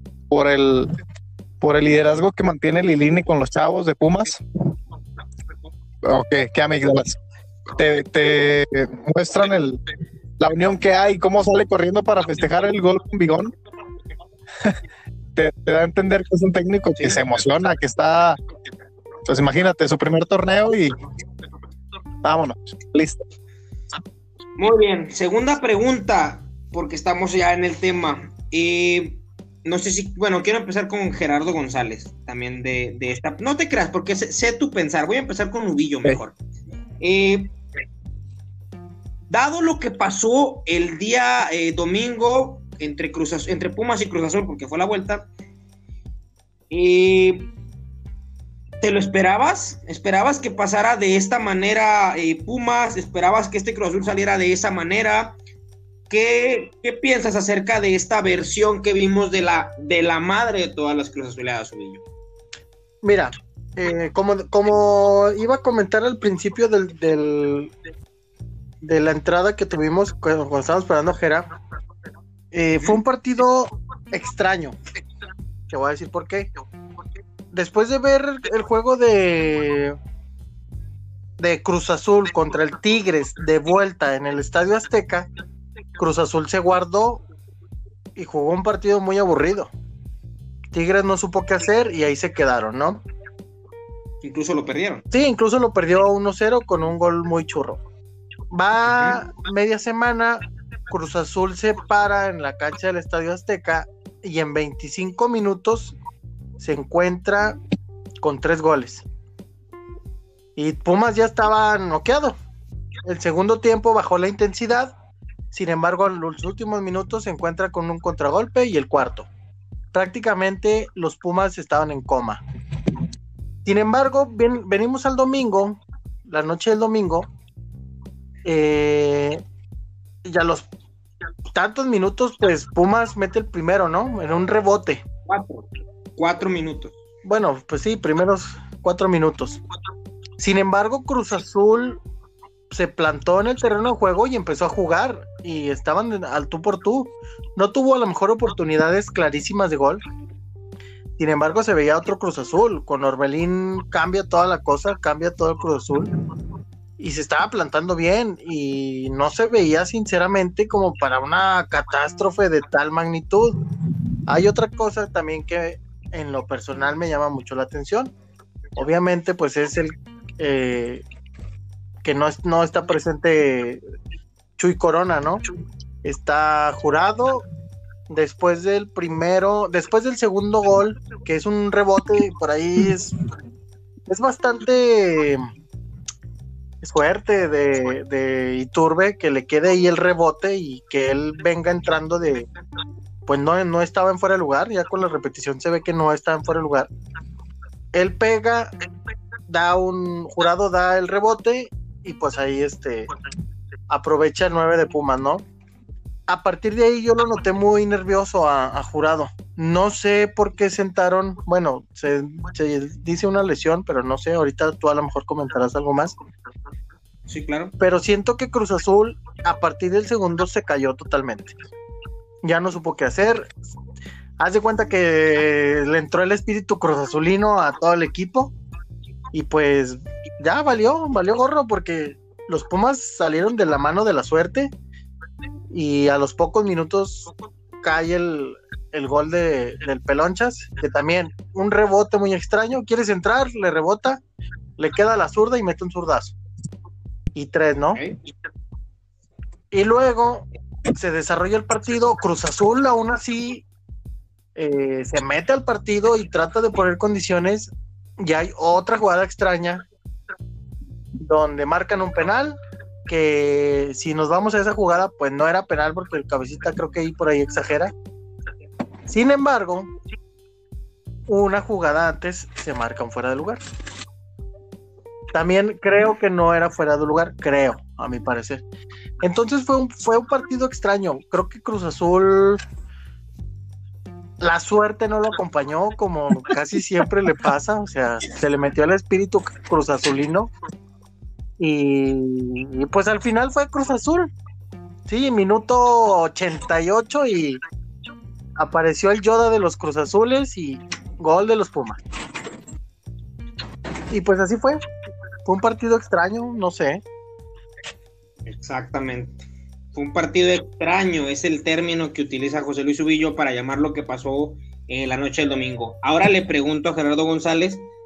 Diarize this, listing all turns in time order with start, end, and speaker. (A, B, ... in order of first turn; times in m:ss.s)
0:00.3-0:00.9 A
0:01.6-0:04.4 A
0:06.0-0:07.2 A
0:07.8-0:09.8 A
0:10.4-0:13.5 A
0:15.4-0:18.4 A
0:19.2-0:20.9 A
0:22.2-0:23.2 A
0:24.6-0:36.3 B
0:37.0-0:37.5 B
0:39.3-0:45.3 B
0:46.7-0:47.5 B
0:48.8-0:55.4 B
0:56.1-1:02.0 B
1:03.0-1:07.7 C
1:08.8-1:11.5 C
1:12.5-1:14.8 C
1:15.7-1:16.5 C
1:17.5-1:20.0 C
1:21.4-1:25.3 C
1:26.0-1:27.2 C
1:28.2-1:29.7 C
1:30.7-1:33.0 C
1:34.2-1:35.0 B
1:35.1-1:37.8 C
1:38.5-1:45.9 C
1:38.9-1:39.2 B
1:46.6-1:47.6 C
1:48.2-1:49.0 C
1:50.6-1:52.4 C
1:53.0-1:54.9 C
1:55.5-1:59.3 C
1:59.9-2:02.4 C
2:03.6-2:07.3 C
2:08.4-2:09.4 C
2:10.2-2:10.7 C
2:11.5-2:15.0 C
2:15.3-2:17.0 B
2:17.2-2:19.6 C
2:20.4-2:22.0 C
2:22.7-2:30.0 C
2:31.2-2:36.1 C
2:37.0-2:43.6 C
2:44.3-2:48.1 C
2:48.8-2:51.0 C
2:52.0-2:53.8 C
2:54.6-2:55.4 C
2:56.0-2:57.4 C
2:58.1-3:03.2 C
3:04.1-3:05.5 C
3:06.8-3:12.5 C
3:13.2-3:16.9 C
3:17.9-3:18.7 C
3:19.5-3:23.1 C
3:23.9-3:25.4 C
3:26.3-3:36.2 C
3:37.3-3:37.7 B
3:37.8-3:41.6 C
3:42.4-3:43.5 C
3:44.4-3:48.5 C
3:49.3-3:54.7 C
3:55.7-3:57.3 C
3:57.8-4:04.2 C
4:04.8-4:06.3 C
4:07.3-4:08.0 C
4:09.7-4:13.6 C
4:14.6-4:19.9 C
4:21.2-4:27.9 C
4:29.1-4:29.9 C
4:31.3-4:33.6 C
4:35.3-4:38.6 C
4:39.2-4:42.6 C
4:44.4-4:50.5 C
4:51.6-4:54.3 C
4:55.1-4:57.6 C
4:58.6-5:02.0 C
5:04.1-5:04.8 C
5:05.4-5:07.0 C
5:08.4-5:17.8 B